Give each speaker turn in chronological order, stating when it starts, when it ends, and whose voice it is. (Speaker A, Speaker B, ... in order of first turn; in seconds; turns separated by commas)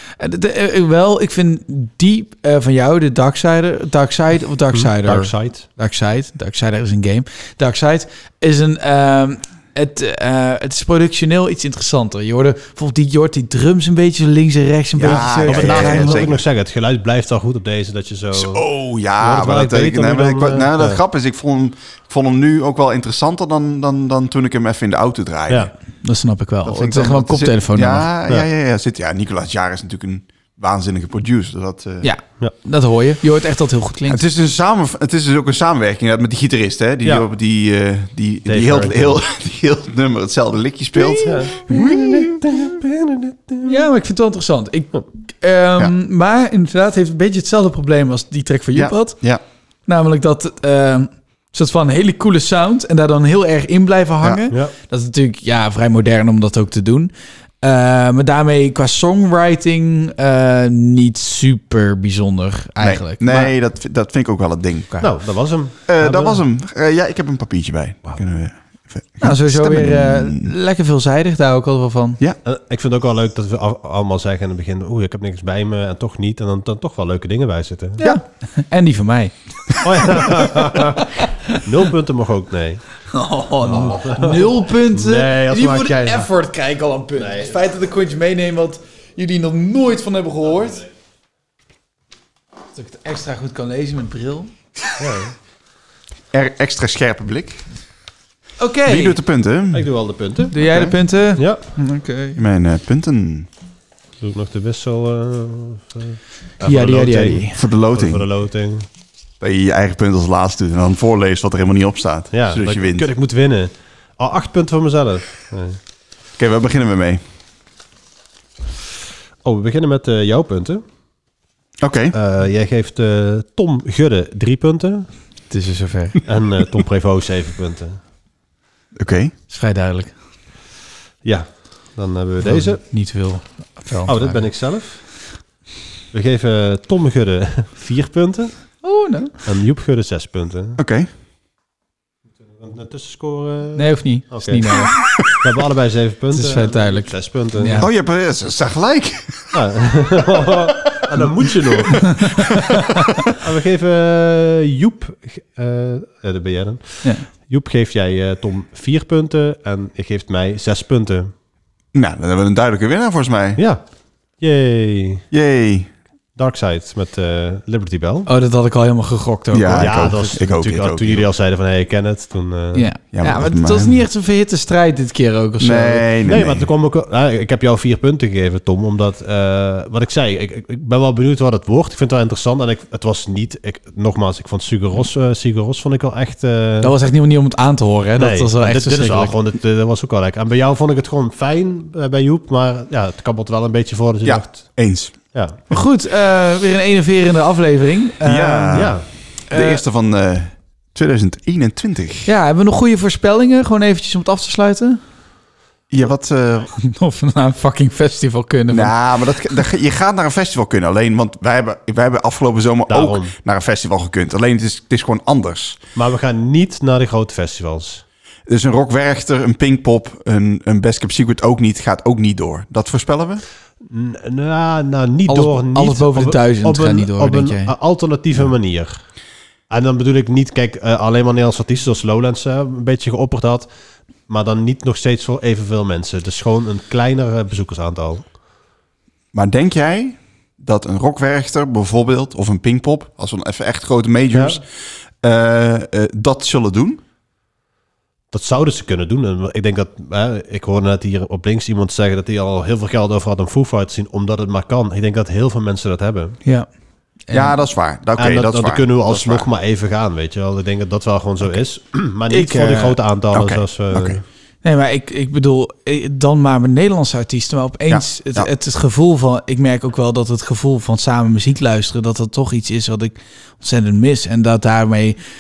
Speaker A: 0.2-16.3, Speaker B: 4.7-5.7, Speaker C: 15.0-16.4, Speaker B: 15.0-18.7, Speaker C: 18.3-25.7, Speaker B: 19.2-21.0, Speaker A: 26.0-28.1, Speaker C: 26.6-32.1, Speaker A: 32.0-34.2, Speaker C: 34.1-42.6, Speaker B: 38.5-39.2, Speaker B: 41.1-43.7, Speaker A: 43.6-49.2, Speaker C: 48.8-49.4, Speaker A: 49.9-63.5, Speaker C: 62.8-65.3, Speaker B: 65.0-66.4, Speaker C: 65.9-70.5, Speaker A: 69.2-72.2, Speaker B: 72.5-78.0, Speaker A: 78.0-79.3, Speaker B: 79.8-83.0, Speaker A: 81.0-81.6, Speaker A: 83.1-90.9, Speaker B: 83.6-86.3, Speaker B: 87.2-87.6, Speaker A: 92.8-94.5, Speaker B: 95.0-95.3, Speaker C: 96.3-97.6, Speaker A: 98.6-99.2, Speaker C: 98.9-99.9, Speaker B: 99.7-100.5, Speaker A: 100.5-102.4, Speaker C: 100.5-101.0, Speaker B: 101.4-101.6, Speaker C: 102.4-103.5, Speaker B: 104.2-108.9, Speaker A: 106.6-107.6, Speaker C: 107.6-108.3, Speaker C: 109.4-113.1, Speaker B: 112.3-115.8, Speaker C: 116.4-117.2, Speaker B: 119.4-120.8, Speaker C: 121.8-122.2, Speaker B: 122.1-125.1, Speaker A: 125.5-126.2, Speaker B: 126.3-128.0, Speaker C: 128.9-129.3, Speaker A: 129.5-130.2, Speaker B: 131.2-132.8, Speaker A: 132.4-134.5, Speaker B: 134.1-135.0, Speaker B: 136.1-138.7, Speaker A: 138.8-139.3, Speaker B: 139.4-140.8, Speaker C: 140.8-141.1, Speaker B: 142.6-144.6, Speaker A: 143.8-144.9, Speaker B: 145.3-147.9, Speaker A: 146.3-147.9, Speaker C: 147.8-149.6, Speaker B: 149.5-152.1, Speaker B: 153.4-161.3, Speaker C: 161.9-163.6, Speaker B: 163.6-163.8, Speaker B: 164.4-165.2, Speaker C: 165.3-165.9, Speaker B: 166.4-168.3, Speaker A: 168.3-170.3, Speaker C: 169.5-171.3, Speaker B: 169.8-172.9, Speaker A: 172.8-176.1, Speaker C: 173.1-174.1, Speaker C: 175.6-176.7, Speaker B: 176.3-186.9, Speaker A: 186.8-189.3, Speaker B: 188.2-195.6, Speaker C: 194.2-195.2, Speaker A: 195.7-198.9, Speaker C: 198.2-202.3, Speaker B: 198.7-199.1, Speaker A: 199.5-199.8, Speaker A: 202.3-205.0, Speaker C: 205.9-206.7, Speaker A: 206.8-209.3, Speaker C: 208.7-215.8, Speaker B: 212.9-213.3, Speaker B: 215.9-218.0, Speaker C: 218.5-223.4, Speaker B: 223.9-229.0, Speaker A: 225.3-227.7, Speaker B: 229.7-233.7, Speaker B: 234.2-238.3, Speaker C: 239.3-244.7, Speaker B: 244.3-244.6, Speaker C: 245.2-247.0, Speaker B: 248.3-256.4, Speaker A: 257.3-257.6, Speaker C: 257.3-259.5, Speaker B: 258.2-264.2, Speaker A: 262.3-263.0, Speaker C: 263.3-264.2, Speaker A: 264.6-275.2, Speaker C: 267.9-268.5